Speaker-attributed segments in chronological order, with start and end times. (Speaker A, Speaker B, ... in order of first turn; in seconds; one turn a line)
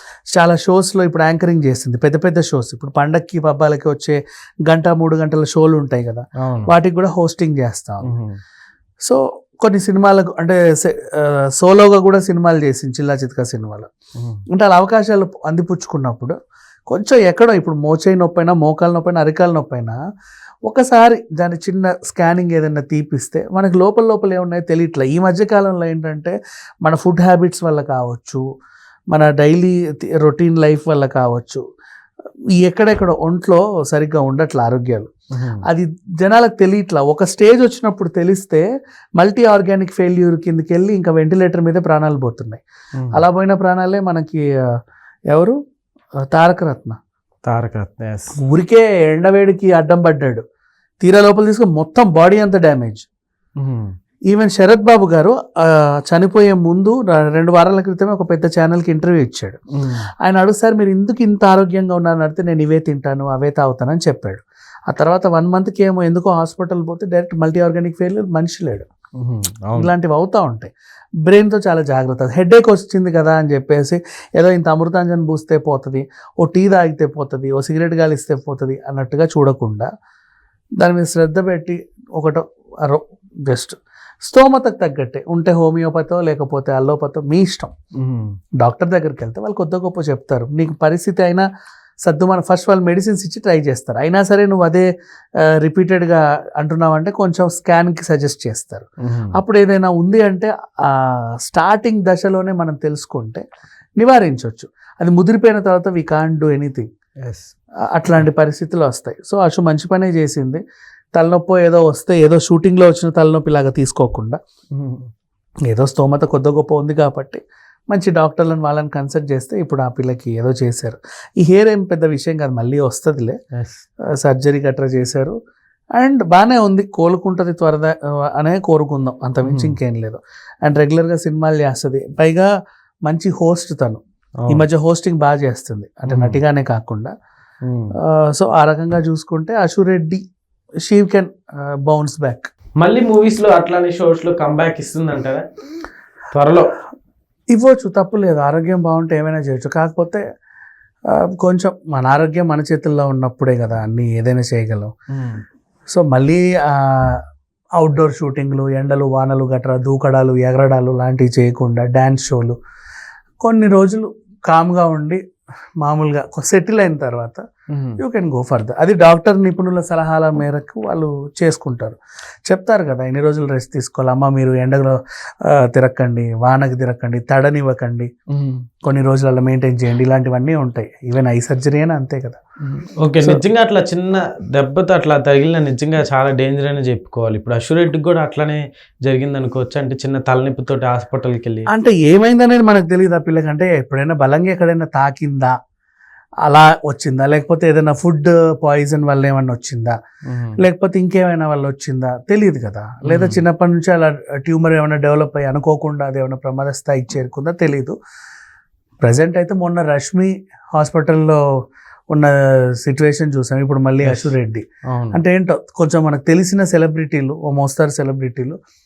Speaker A: 0.3-8.2
Speaker B: 6.4-6.7
Speaker B: 8.0-8.4
Speaker A: 9.0-13.9
Speaker A: 14.5-16.3
Speaker A: 16.9-20.0
Speaker A: 20.7-28.4
Speaker A: 29.1-31.6
Speaker A: 32.6-35.1
Speaker B: 35.3-35.6
Speaker A: 35.6-38.6
Speaker A: 39.2-42.6
Speaker B: 43.0-43.2
Speaker A: 43.1-44.7
Speaker A: 46.3-47.0
Speaker B: 47.5-48.4
Speaker A: 48.4-50.4
Speaker A: 51.0-53.0
Speaker B: 53.6-53.9
Speaker A: 54.3-59.6
Speaker B: 59.7-60.0
Speaker A: 60.2-68.8
Speaker B: 69.2-69.9
Speaker A: 69.8-70.7
Speaker A: 71.2-79.9
Speaker A: 80.8-87.7
Speaker B: 88.0-88.3
Speaker A: 88.6-91.5
Speaker A: 92.0-94.9
Speaker A: 95.4-103.4
Speaker B: 99.0-99.3
Speaker A: 104.0-106.9
Speaker B: 107.2-107.5
Speaker A: 107.9-110.6
Speaker A: 111.1-114.4
Speaker B: 114.7-115.1
Speaker A: 115.7-123.3
Speaker B: 123.5-123.8
Speaker A: 124.2-125.3
Speaker A: 125.9-132.5
Speaker B: 129.4-129.8
Speaker A: 133.1-137.1
Speaker B: 136.1-136.4
Speaker B: 137.6-137.9
Speaker A: 138.0-140.2
Speaker A: 140.9-141.3
Speaker A: 141.8-142.5
Speaker B: 142.8-145.4
Speaker B: 146.3-146.7
Speaker A: 147.5-150.2
Speaker A: 151.1-154.9
Speaker B: 155.1-155.4
Speaker A: 155.9-157.2
Speaker A: 157.8-162.6
Speaker A: 163.4-165.2
Speaker A: 165.8-167.4
Speaker B: 167.7-168.0
Speaker A: 168.0-178.1
Speaker B: 178.3-178.7
Speaker A: 178.8-182.4
Speaker B: 182.6-191.7
Speaker A: 191.7-195.5
Speaker A: 196.4-199.9
Speaker B: 200.3-200.6
Speaker A: 200.6-207.9
Speaker B: 203.1-203.4
Speaker A: 209.0-211.4
Speaker A: 212.1-218.6
Speaker B: 214.0-214.3
Speaker B: 214.9-215.2